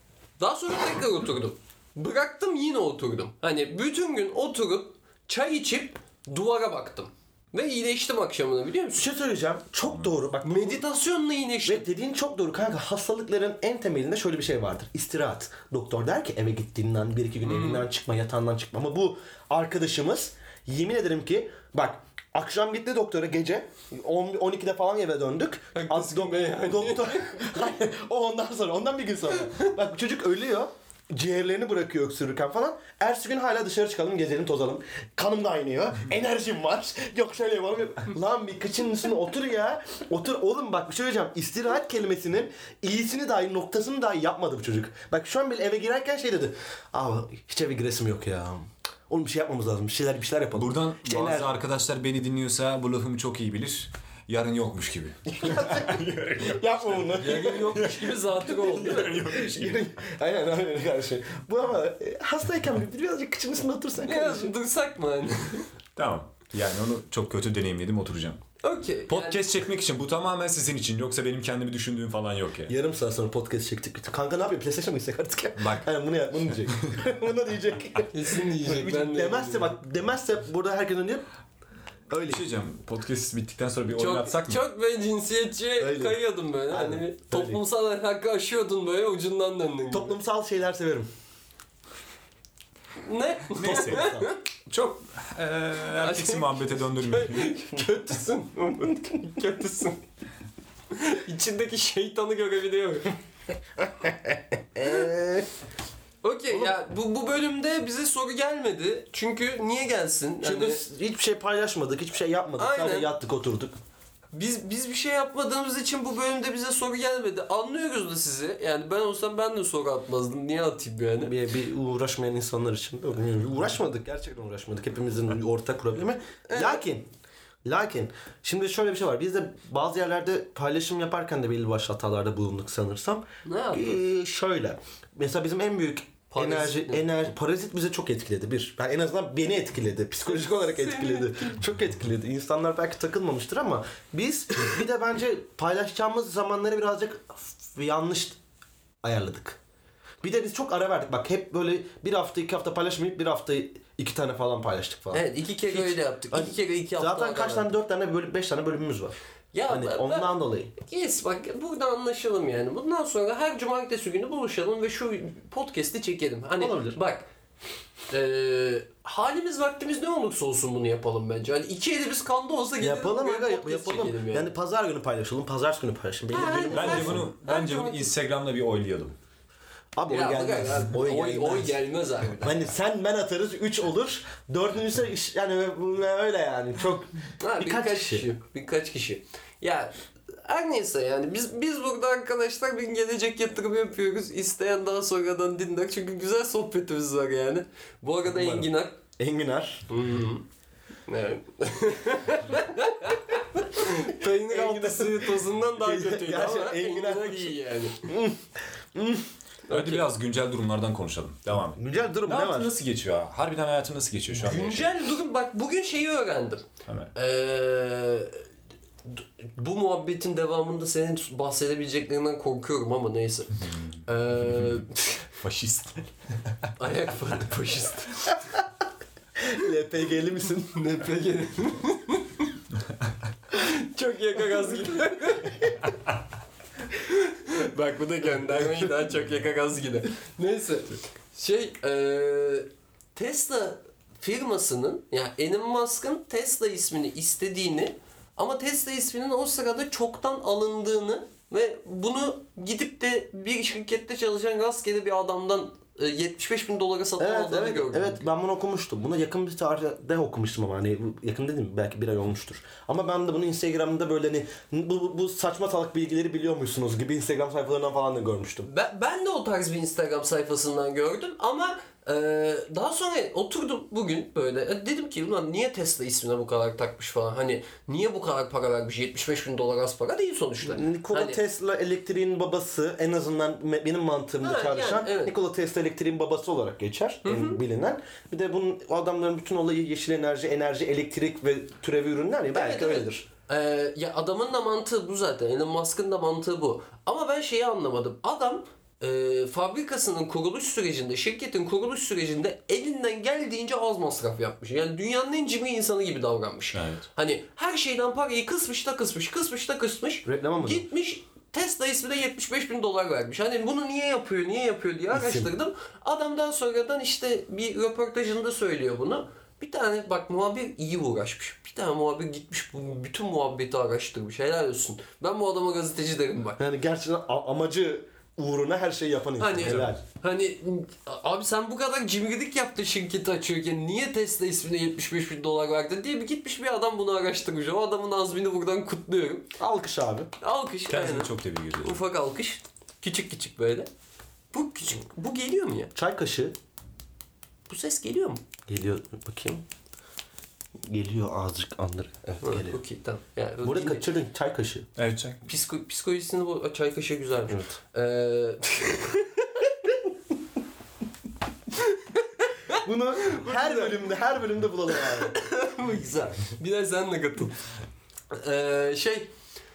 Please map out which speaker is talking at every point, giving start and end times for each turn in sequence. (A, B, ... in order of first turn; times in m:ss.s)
0:00.4-0:09.0 A
0:08.9-0:10.8 B
0:09.8-0:10.1 C
0:10.4-0:11.8 A
0:11.6-0:51.5 B
0:17.4-0:17.8 A
0:25.8-0:27.4 A
0:50.5-0:59.9 C
0:55.3-0:57.8 B
0:57.2-0:59.1 A
0:58.8-1:04.5 B
1:04.0-1:05.7 A
1:06.0-1:08.4 C
1:08.6-1:09.4 A
1:09.1-1:12.7 C
1:12.7-1:21.2 B
1:15.6-1:15.9 C
1:18.1-1:19.7 A
1:22.1-1:22.4 B
1:22.3-1:24.6 C
1:24.0-1:30.2 A
1:25.8-1:27.6 B
1:29.9-1:31.1 B
1:33.0-1:34.4 A
1:33.5-1:34.2 C
1:33.6-1:34.3 B
1:34.7-1:37.6 C
1:36.0-1:40.0 A
1:40.9-1:43.2 A
1:43.8-1:45.5 B
1:46.2-1:50.8 A
1:50.4-1:53.8 B
1:52.6-1:53.1 A
1:54.3-2:01.4 A
2:01.2-2:07.1 B
2:06.5-2:06.8 A
2:07.6-2:28.4 B
2:13.4-2:14.0 A
2:16.3-2:17.1 A
2:20.3-2:21.6 A
2:29.0-2:29.6 B
2:30.2-2:39.2 B
2:35.1-2:37.7 A
2:39.5-2:47.3 A
2:39.7-2:40.7 B
2:46.6-2:47.0 B
2:48.1-2:54.5 A
2:52.8-2:57.3 B
2:56.3-2:58.1 A
2:56.7-2:59.2 C
3:00.0-3:01.8 B
3:00.1-3:02.6 A
3:02.3-3:08.2 B
3:07.4-3:19.0 A
3:18.2-3:19.8 B
3:19.9-3:20.4 A
3:21.1-3:28.1 A
3:24.2-3:28.4 B
3:28.9-3:29.3 B
3:29.7-3:30.0 A
3:29.7-3:34.9 C
3:31.7-3:32.7 B
3:34.3-3:38.4 A
3:36.9-3:37.1 C
3:39.1-3:45.2 A
3:43.6-3:44.8 C
3:45.4-3:46.1 C
3:46.8-3:48.4 A
3:49.4-3:51.1 B
3:50.7-3:52.6 A
3:53.5-3:55.8 A
3:56.9-4:18.2 A
4:17.2-4:28.7 B
4:28.6-4:41.4 A
4:40.6-4:53.3 B
4:44.4-4:45.3 A
4:47.2-4:47.6 A
4:52.5-5:26.6 A
5:06.7-5:07.0 C
5:10.2-5:10.8 B
5:15.1-5:15.5 B
5:26.6-5:30.0 B
5:29.4-5:39.5 A
5:29.6-5:29.9 C
5:39.6-5:40.3 B
5:40.4-5:43.9 A
5:40.9-5:42.0 C
5:44.5-5:45.9 A
5:45.9-5:46.6 B
5:47.7-5:48.4 A
5:48.7-5:49.6 B
5:50.8-5:52.8 B
5:52.4-5:54.1 A
5:53.6-5:54.9 B
5:55.0-5:55.4 C
5:55.4-5:59.7 A
5:57.5-5:57.8 B
6:01.8-6:04.0 A
6:02.7-6:05.3 B
6:04.9-6:07.5 A
6:08.3-6:09.3 A